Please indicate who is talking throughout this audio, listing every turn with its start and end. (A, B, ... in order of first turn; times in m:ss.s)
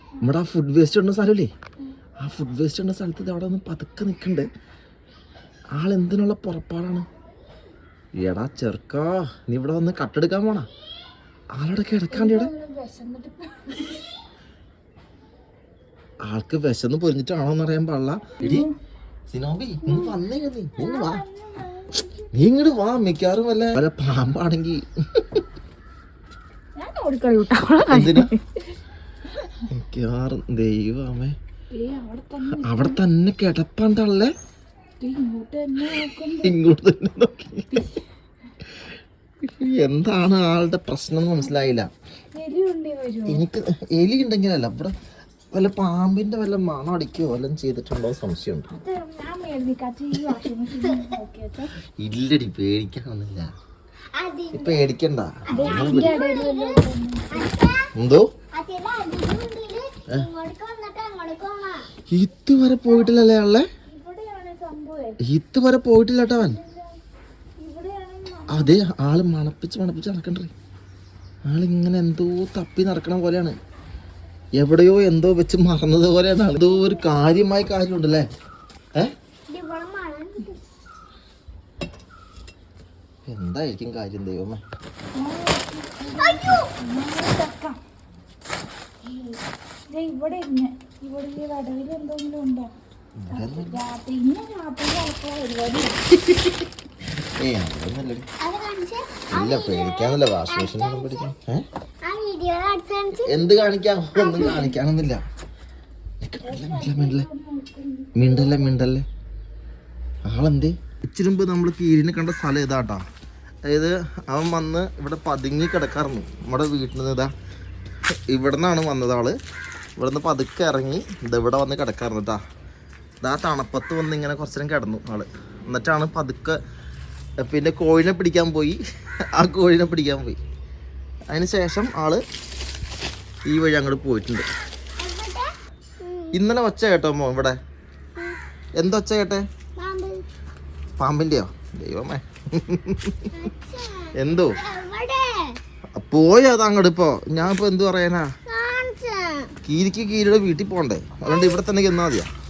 0:00.2-0:01.5 A
0:02.2-0:04.5 A
0:05.7-0:07.1 A
0:08.2-0:10.7 A
0:11.6-0:12.5 A
0:12.1-0:14.2 B
0:16.3-0:18.7 A
0:18.4-0:18.7 B
0:19.3-0:21.2 A
0:19.8-0:20.2 B
0:20.8-0:22.3 B
0:22.3-0:25.4 A
0:26.8-0:28.5 B
0:27.9-0:28.3 A
0:29.4-0:29.7 B
0:29.7-0:31.4 A
0:31.7-0:33.0 B
0:32.5-0:34.3 A
0:35.0-0:36.6 B
0:36.0-0:37.9 A
0:37.7-0:38.0 B
0:39.4-0:41.9 A
0:42.4-0:43.4 B
0:43.3-0:44.9 A
0:45.5-0:48.7 A
0:48.7-0:51.7 B
0:52.0-0:53.5 A
0:54.2-0:54.8 C
0:54.5-0:56.2 A
0:55.5-0:57.9 C
0:55.5-0:57.5 B
0:58.0-0:58.2 A
0:58.5-1:01.9 C
1:02.1-1:03.6 A
1:03.9-1:05.2 B
1:05.2-1:06.6 A
1:06.3-1:07.0 B
1:07.6-1:08.8 B
1:08.5-1:10.5 A
1:11.5-1:13.5 A
1:14.6-1:18.2 A
1:16.7-1:17.0 B
1:19.5-1:20.6 C
1:23.3-1:24.6 A
1:25.2-1:27.8 B
1:26.1-1:26.7 C
1:29.9-1:32.7 B
1:33.2-1:33.8 A
1:33.3-1:36.0 B
1:36.2-1:36.7 A
1:37.4-1:38.3 A
1:38.4-1:41.3 C
1:39.3-1:41.6 A
1:42.0-1:43.5 C
1:43.2-1:45.2 A
1:44.2-1:44.7 C
1:44.4-1:44.7 B
1:46.2-1:47.3 A
1:46.4-1:48.8 B
1:48.2-1:49.0 A
1:50.3-1:53.0 A
1:53.7-1:57.3 A
1:58.3-1:59.4 A
2:00.0-2:02.4 A
2:03.2-2:06.6 A
2:07.4-2:08.8 A
2:09.4-2:10.4 A
2:11.3-2:12.2 A
2:13.5-2:14.5 A
2:15.0-2:16.4 C
2:16.3-2:17.6 A
2:18.8-2:19.4 A
2:19.8-2:20.2 C
2:21.0-2:23.4 A
2:23.3-2:25.6 C
2:24.2-2:24.6 A
2:26.0-2:28.3 A
2:28.5-2:29.5 C
2:29.6-2:32.3 A
2:31.2-2:31.6 C